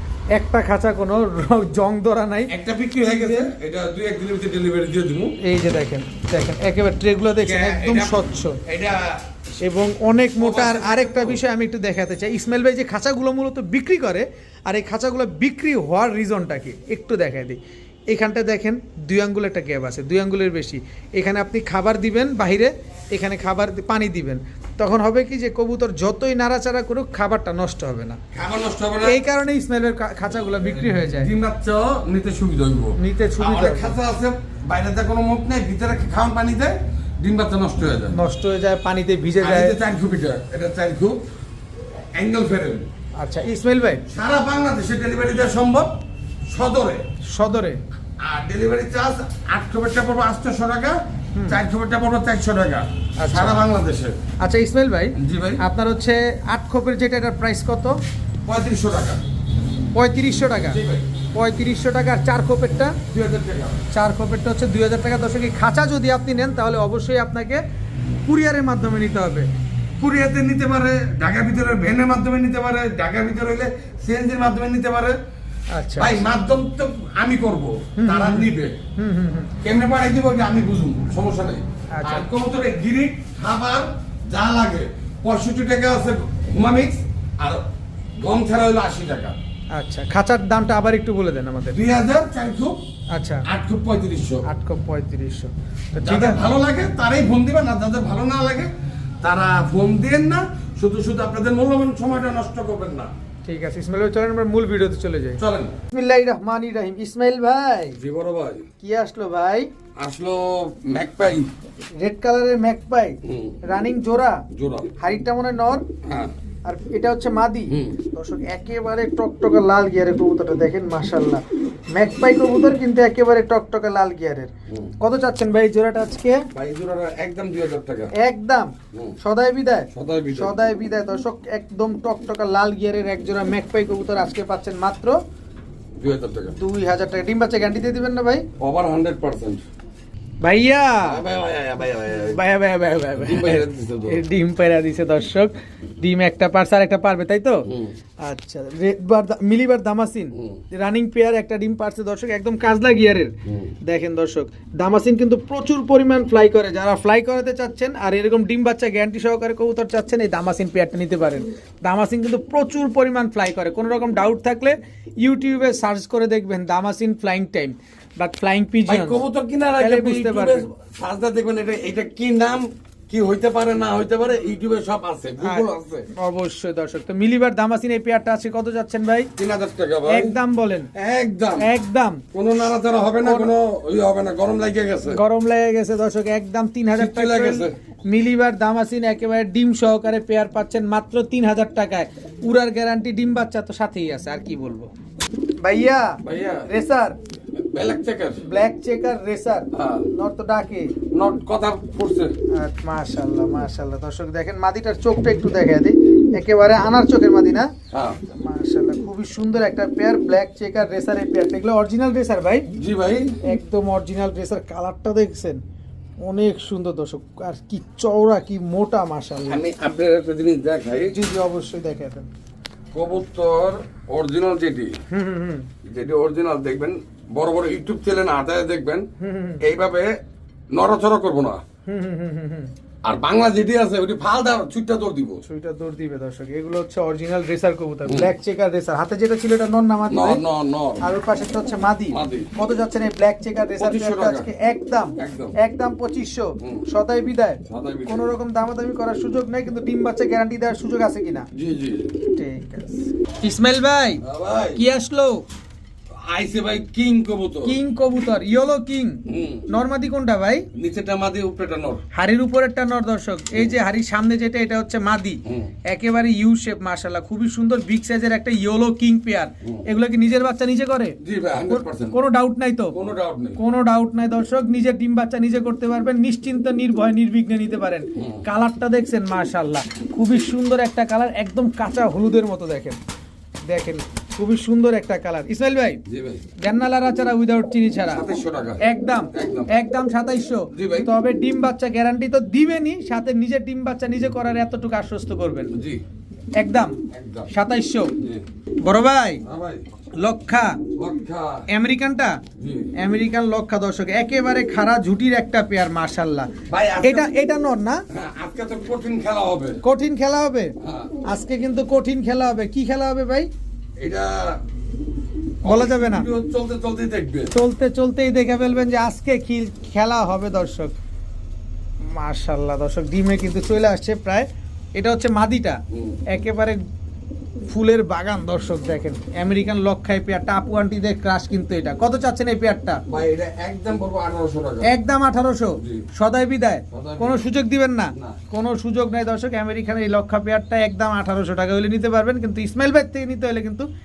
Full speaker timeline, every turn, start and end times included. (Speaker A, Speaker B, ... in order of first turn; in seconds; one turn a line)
Speaker A: 0.3-2.5
Speaker B: 2.5-5.4
Speaker A: 3.0-3.5
Speaker A: 5.4-8.6
Speaker B: 7.4-9.6
Speaker A: 9.6-28.2
Speaker B: 10.3-11.4
Speaker B: 28.3-29.2
Speaker A: 29.0-31.3
Speaker B: 30.6-38.2
Speaker A: 33.0-34.0
Speaker A: 38.1-39.8
Speaker B: 39.4-41.2
Speaker B: 42.1-42.9
Speaker A: 43.2-44.0
Speaker B: 44.1-45.9
Speaker B: 46.5-47.0
Speaker A: 47.3-47.8
Speaker B: 48.2-54.2
Speaker A: 51.4-51.6
Speaker A: 53.2-53.6
Speaker A: 54.4-58.0
Speaker B: 55.2-55.6
Speaker B: 58.5-59.2
Speaker A: 60.0-60.8
Speaker B: 60.7-61.1
Speaker A: 61.4-63.0
Speaker B: 63.1-63.9
Speaker A: 63.9-67.6
Speaker A: 68.3-69.5
Speaker B: 70.0-75.2
Speaker A: 75.7-76.2
Speaker B: 76.0-78.8
Speaker A: 78.0-79.5
Speaker B: 79.6-87.7
Speaker A: 81.9-82.3
Speaker B: 88.2-89.4
Speaker A: 89.8-91.8
Speaker B: 91.7-92.8
Speaker A: 93.1-93.5
Speaker B: 93.5-94.4
Speaker A: 94.5-96.4
Speaker B: 96.0-98.7
Speaker B: 99.2-103.1
Speaker A: 103.5-105.4
Speaker B: 105.4-105.8
Speaker A: 105.9-108.0
Speaker B: 108.0-108.7
Speaker A: 108.8-109.7
Speaker B: 110.0-111.5
Speaker A: 112.0-114.5
Speaker B: 113.2-113.6
Speaker B: 114.5-114.9
Speaker A: 115.0-115.9
Speaker B: 116.0-116.3
Speaker A: 116.7-121.4
Speaker B: 117.7-118.0
Speaker A: 121.9-126.5
Speaker B: 124.7-124.9
Speaker B: 126.5-128.1
Speaker A: 128.1-135.2
Speaker B: 129.9-130.6
Speaker B: 136.0-136.6
Speaker A: 136.6-138.5
Speaker B: 138.6-139.7
Speaker A: 140.4-141.2
Speaker B: 141.0-142.4
Speaker A: 142.3-147.7
Speaker B: 143.2-144.2
Speaker B: 147.7-147.9
Speaker A: 148.2-169.2
Speaker B: 150.3-150.6
Speaker B: 153.5-153.7
Speaker B: 168.9-176.1
Speaker A: 169.8-170.7
Speaker A: 175.4-179.3
Speaker B: 179.4-180.4
Speaker A: 180.1-180.9
Speaker B: 180.9-181.7
Speaker A: 181.6-182.2
Speaker B: 182.3-185.2
Speaker A: 183.2-183.5
Speaker A: 185.1-194.9
Speaker B: 186.9-187.8
Speaker A: 195.6-197.2
Speaker B: 196.2-196.7
Speaker B: 197.5-198.4
Speaker A: 198.4-200.9
Speaker B: 199.7-200.1
Speaker B: 201.1-202.3
Speaker A: 202.5-207.7
Speaker B: 207.9-208.2
Speaker A: 208.3-212.7
Speaker B: 212.7-213.4
Speaker A: 213.4-215.6
Speaker A: 216.2-219.6
Speaker B: 219.5-221.2
Speaker A: 221.1-222.3
Speaker B: 222.9-225.0
Speaker A: 225.1-225.7
Speaker B: 225.8-229.1
Speaker A: 229.2-229.6
Speaker B: 229.6-230.2
Speaker B: 230.7-231.6
Speaker A: 231.9-232.7
Speaker B: 233.0-235.4
Speaker A: 235.5-240.4
Speaker B: 238.1-238.3
Speaker B: 240.1-241.0
Speaker A: 241.0-251.5
Speaker B: 242.1-242.5
Speaker B: 243.8-244.5
Speaker B: 245.2-245.5
Speaker B: 247.7-248.3
Speaker B: 251.5-252.2
Speaker A: 252.3-254.2
Speaker B: 254.2-254.8
Speaker A: 254.8-255.4
Speaker B: 256.1-257.8
Speaker A: 257.6-260.7
Speaker B: 259.3-259.7
Speaker B: 260.8-262.0
Speaker A: 262.1-271.2
Speaker B: 265.5-265.7
Speaker B: 271.2-272.2
Speaker A: 271.7-272.9
Speaker B: 272.9-273.6
Speaker A: 273.6-283.0
Speaker B: 278.2-278.4
Speaker A: 283.7-286.0
Speaker B: 286.1-286.4
Speaker A: 286.6-288.3
Speaker B: 288.1-288.8
Speaker A: 288.8-295.7
Speaker B: 289.3-289.7
Speaker B: 290.7-291.1
Speaker B: 295.7-296.0
Speaker A: 296.6-297.0
Speaker B: 297.1-297.5
Speaker A: 297.5-298.1
Speaker B: 298.2-298.4
Speaker A: 298.9-299.4
Speaker B: 299.4-299.8
Speaker A: 300.2-300.8
Speaker B: 301.0-301.7
Speaker A: 301.7-302.4
Speaker B: 302.6-302.9
Speaker A: 302.9-306.5
Speaker B: 306.7-307.3
Speaker A: 307.0-308.1
Speaker B: 308.1-309.8
Speaker A: 309.8-313.5
Speaker B: 310.8-311.1
Speaker B: 314.0-314.6
Speaker B: 315.6-317.5
Speaker A: 315.6-316.3
Speaker A: 317.5-320.9
Speaker A: 322.0-326.8
Speaker B: 325.9-326.2
Speaker A: 327.7-333.0
Speaker B: 333.1-334.9
Speaker A: 334.8-343.9
Speaker B: 335.8-336.1
Speaker B: 336.9-337.4